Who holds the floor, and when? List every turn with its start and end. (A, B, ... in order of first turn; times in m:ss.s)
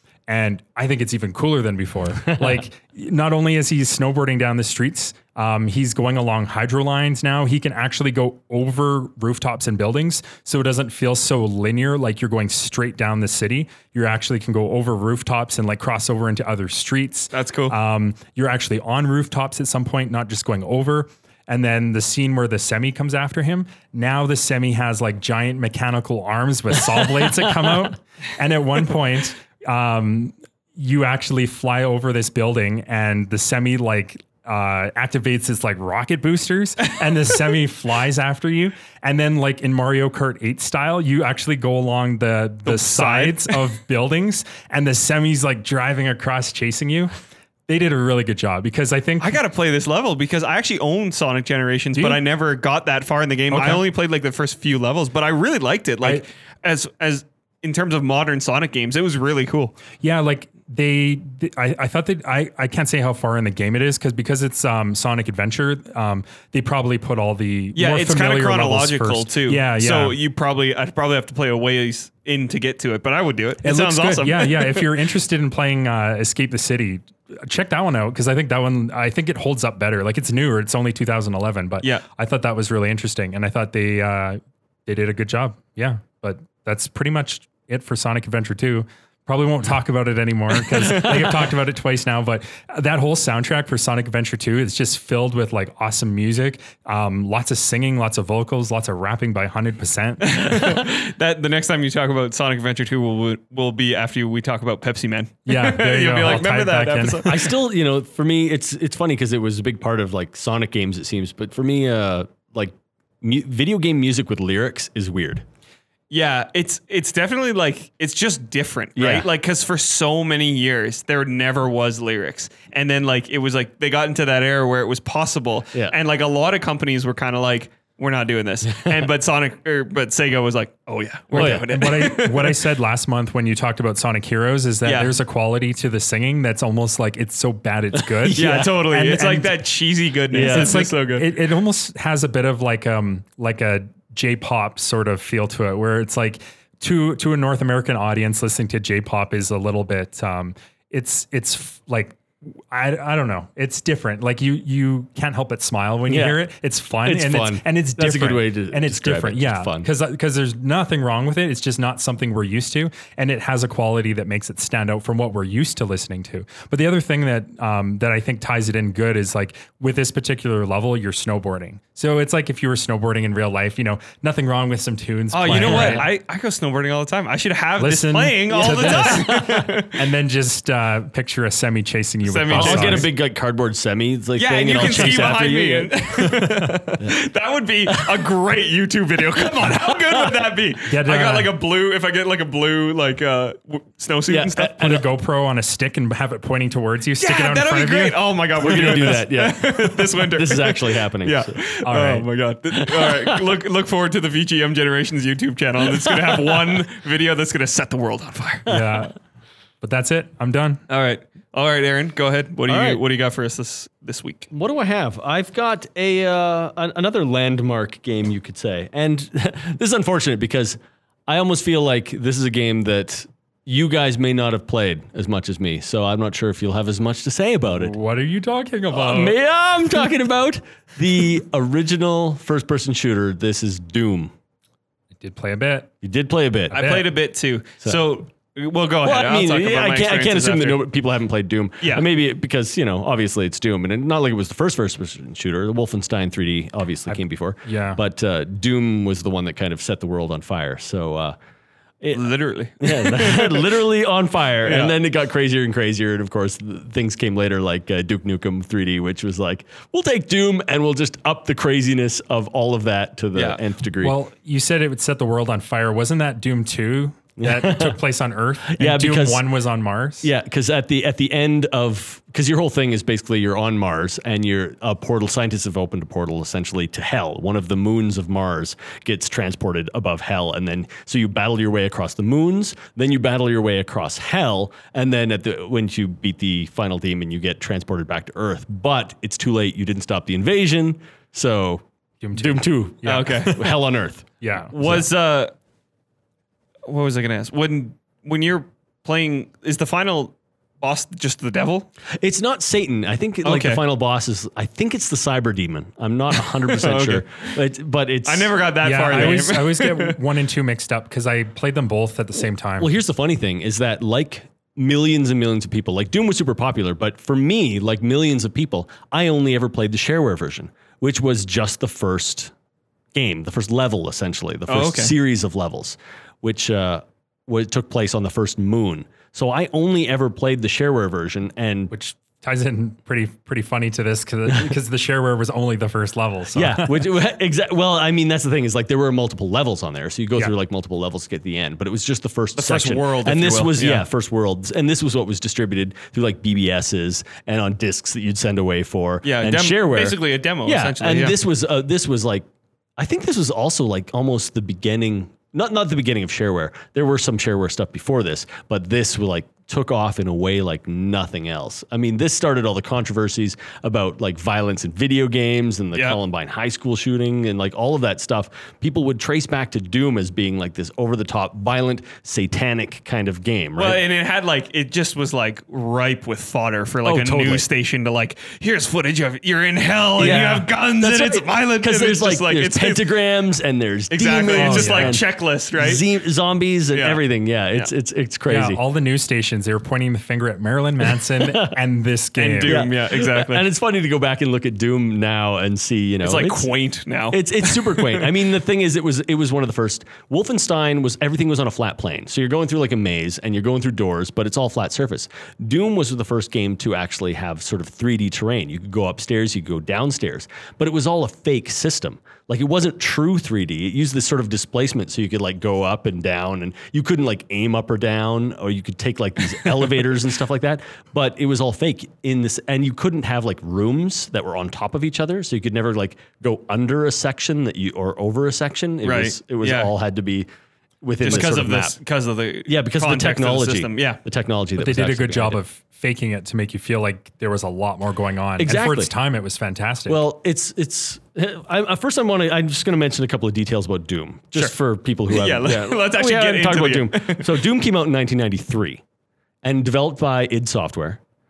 0:00.3-0:47.1 A
0:02.3-0:02.6 B
0:17.3-0:17.8 C
0:42.6-0:43.6 C
0:47.7-0:49.4 A
0:49.2-0:59.7 C
0:52.0-0:52.2 A
0:53.5-0:53.8 A
1:00.0-1:10.2 A
1:07.8-1:14.9 C
1:13.6-1:40.7 A
1:30.7-1:31.2 C
1:40.2-1:47.4 C
1:45.5-1:47.4 A
1:47.3-1:55.4 B
1:56.1-2:12.6 C
1:59.0-1:59.3 B
2:08.7-2:09.0 B
2:11.3-2:11.9 B
2:11.3-2:19.6 A
2:14.8-2:15.1 C
2:18.0-2:18.8 B
2:18.4-2:21.3 C
2:20.3-2:20.8 B
2:20.4-2:56.1 A
2:36.1-2:36.4 B
2:37.0-2:39.9 B
2:55.3-3:00.0 C
2:55.5-2:56.1 B
2:57.8-3:03.1 A
2:58.6-2:59.7 B
3:02.2-3:03.1 C
3:02.5-3:06.0 B
3:04.4-3:14.8 C
3:06.2-3:06.8 A
3:07.9-3:08.2 B
3:09.4-3:10.3 B
3:10.9-3:11.5 A
3:14.3-3:15.1 B
3:14.6-3:18.2 A
3:17.2-3:28.7 C
3:18.6-3:21.6 B
3:21.8-3:22.3 A
3:22.8-3:23.5 B
3:25.9-3:26.8 B
3:28.7-3:29.0 B
3:28.7-3:29.2 A
3:29.8-3:30.8 A
3:30.9-3:34.5 C
3:32.7-3:33.0 B
3:34.5-3:47.9 B
3:47.8-3:49.4 A
3:48.9-3:54.3 B
3:55.2-3:55.9 A
3:56.0-3:56.8 B
3:56.7-3:57.1 A
3:56.7-4:00.8 C
3:59.0-4:11.4 B
4:07.1-4:08.0 A
4:12.0-4:24.2 B
4:12.1-4:13.8 C
4:14.6-4:15.0 C
4:23.4-4:23.6 C
4:24.0-4:30.3 A
4:27.4-4:28.0 B
4:28.7-4:29.4 B
4:30.2-4:54.3 B
4:52.2-4:53.8 A
4:53.0-4:53.6 C
4:54.4-4:54.9 A
4:54.7-4:55.5 C
4:56.9-5:01.9 C
5:02.2-5:08.6 B
5:03.4-5:03.8 C
5:06.6-5:07.2 C
5:08.2-5:10.2 C
5:08.8-5:12.9 A
5:12.8-5:22.5 B
5:23.1-5:31.9 B
5:24.7-5:25.1 C
5:31.9-5:37.1 A
5:34.5-5:34.8 B
5:36.6-6:14.0 B
5:42.6-5:44.0 C
5:49.2-5:51.4 C
6:13.8-6:23.0 C
6:17.0-6:17.7 B
6:20.2-6:28.8 B
6:24.1-6:26.0 C
6:24.5-6:25.2 A
6:26.9-6:27.2 C
6:28.5-6:32.9 A
6:31.4-6:31.8 B
6:32.4-6:33.7 C
6:32.7-6:36.7 B
6:36.2-6:38.3 C
6:37.3-7:10.5 B
7:09.0-7:09.9 C
7:11.0-7:12.0 B
7:11.2-7:14.2 C
7:12.7-7:15.6 B
7:14.8-7:20.2 A
7:18.6-7:19.1 B
7:20.1-7:29.0 B
7:25.3-7:27.5 C
7:29.6-7:31.2 B